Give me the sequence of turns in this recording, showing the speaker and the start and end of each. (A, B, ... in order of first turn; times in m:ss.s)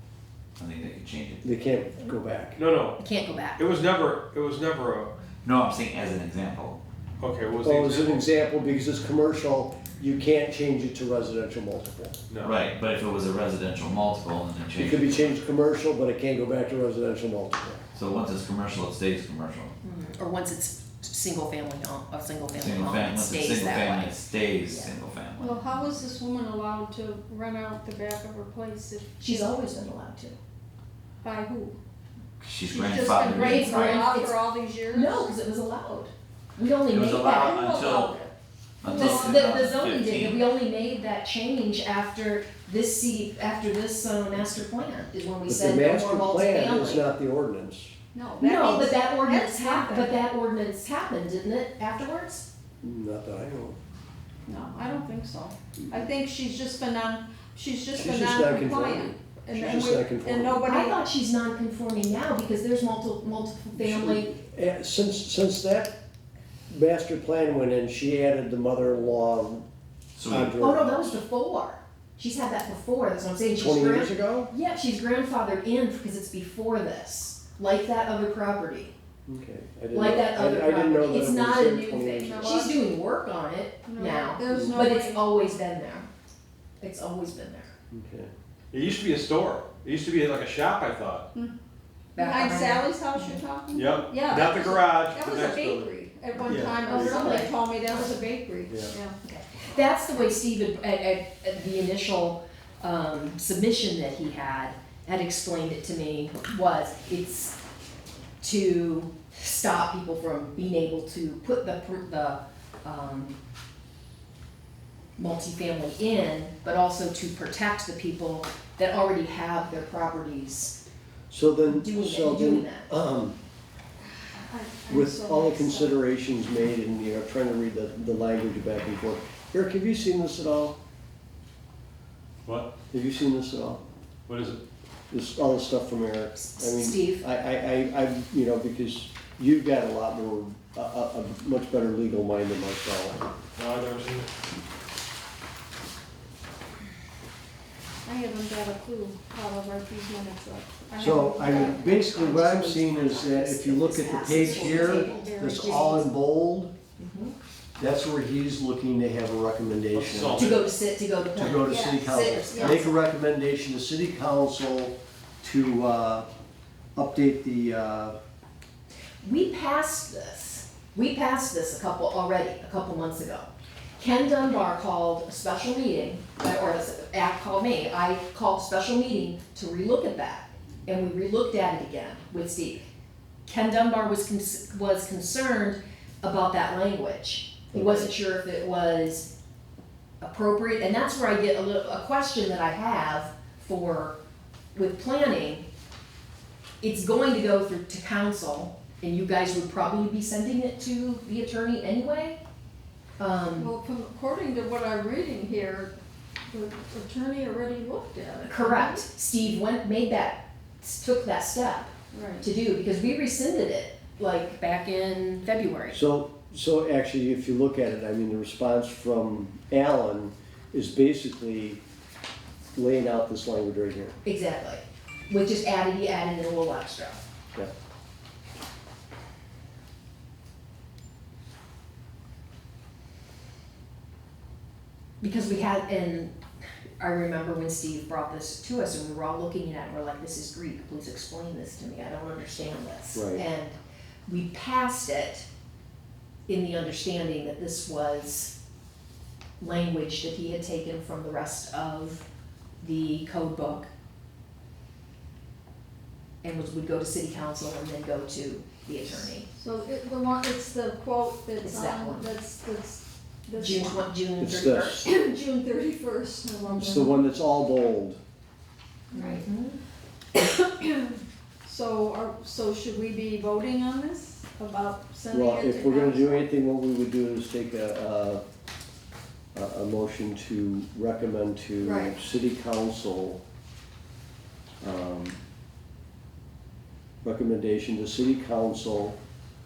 0:00.6-0:01.4 A
0:01.4-0:02.6 B
0:02.6-0:03.0 C
0:03.0-0:03.6 D
0:03.6-0:05.1 C
0:05.4-0:06.8 A
0:07.2-0:08.3 C
0:07.6-0:12.2 B
0:12.3-0:12.6 C
0:12.4-0:15.4 A
0:14.8-0:17.8 B
0:17.9-0:19.7 A
0:19.8-0:24.9 D
0:22.6-0:25.6 A
0:25.4-0:29.6 E
0:29.2-0:30.4 D
0:31.2-0:31.8 E
0:32.4-0:34.0 A
0:32.6-0:35.3 E
0:33.2-0:34.4 D
0:34.9-0:37.7 D
0:36.9-0:38.2 A
0:37.2-0:38.3 E
0:38.8-0:40.4 A
0:38.9-0:39.5 E
0:38.9-0:47.1 D
0:45.5-0:47.9 B
0:48.1-0:50.2 E
0:48.4-0:52.4 D
0:52.8-0:53.8 B
0:54.5-1:01.0 E
0:58.0-1:00.6 B
1:00.6-1:04.3 D
1:03.8-1:05.9 B
1:06.7-1:09.6 B
1:10.2-1:10.6 A
1:10.3-1:11.0 B
1:10.6-1:18.9 D
1:13.6-1:14.5 B
1:19.2-1:22.6 B
1:19.9-1:26.1 D
1:22.1-1:22.8 E
1:23.9-1:25.3 E
1:24.5-1:24.8 B
1:26.8-1:27.7 D
1:27.9-1:28.3 B
1:28.7-1:31.2 C
1:32.2-1:33.4 D
1:32.2-1:39.1 E
1:33.7-1:37.3 C
1:36.6-1:38.1 D
1:38.7-1:38.9 C
1:39.2-1:47.6 D
1:48.4-1:53.4 D
1:55.2-2:00.7 D
2:01.3-2:03.4 B
2:01.7-2:02.9 D
2:04.4-2:06.0 E
2:04.9-2:10.8 B
2:12.9-2:13.8 B
2:14.3-2:14.6 C
2:15.1-2:23.2 B
2:16.4-2:17.2 D
2:23.6-2:24.3 C
2:28.0-2:32.0 E
2:31.0-2:36.7 B
2:31.4-2:35.4 D
2:34.2-2:36.1 E
2:37.0-2:37.3 D
2:37.8-2:40.6 B
2:39.9-2:40.7 C
2:40.3-2:42.9 D
2:41.4-2:46.2 B
2:41.6-2:42.8 E
2:47.0-2:48.2 B
2:49.2-3:02.8 D
3:03.5-3:09.3 D
3:07.7-3:08.1 B
3:10.2-3:14.2 D
3:14.7-3:15.7 D
3:16.8-3:22.4 D
3:23.2-3:23.7 D
3:23.6-3:25.9 E
3:26.5-3:29.0 E
3:28.4-3:36.0 D
3:32.1-3:32.5 E
3:35.9-3:41.8 B
3:42.8-3:44.2 B
3:44.2-3:47.2 D
3:55.2-3:56.3 D
3:57.0-4:05.4 D
4:03.1-4:03.4 B
4:06.5-4:08.5 D
4:09.6-4:12.2 D
4:12.8-4:13.9 D
4:16.4-4:19.5 D
4:19.6-4:24.1 E
4:21.6-4:22.3 D
4:23.6-4:25.0 D
4:24.4-4:25.0 B
4:25.0-4:27.1 E
4:26.8-4:28.2 B
4:29.1-4:29.4 E
4:29.1-4:29.8 D
4:30.3-4:36.5 E
4:35.3-4:38.4 B
4:39.5-4:43.4 B
4:41.8-4:42.1 E
4:44.8-4:45.4 B
4:47.2-4:49.2 B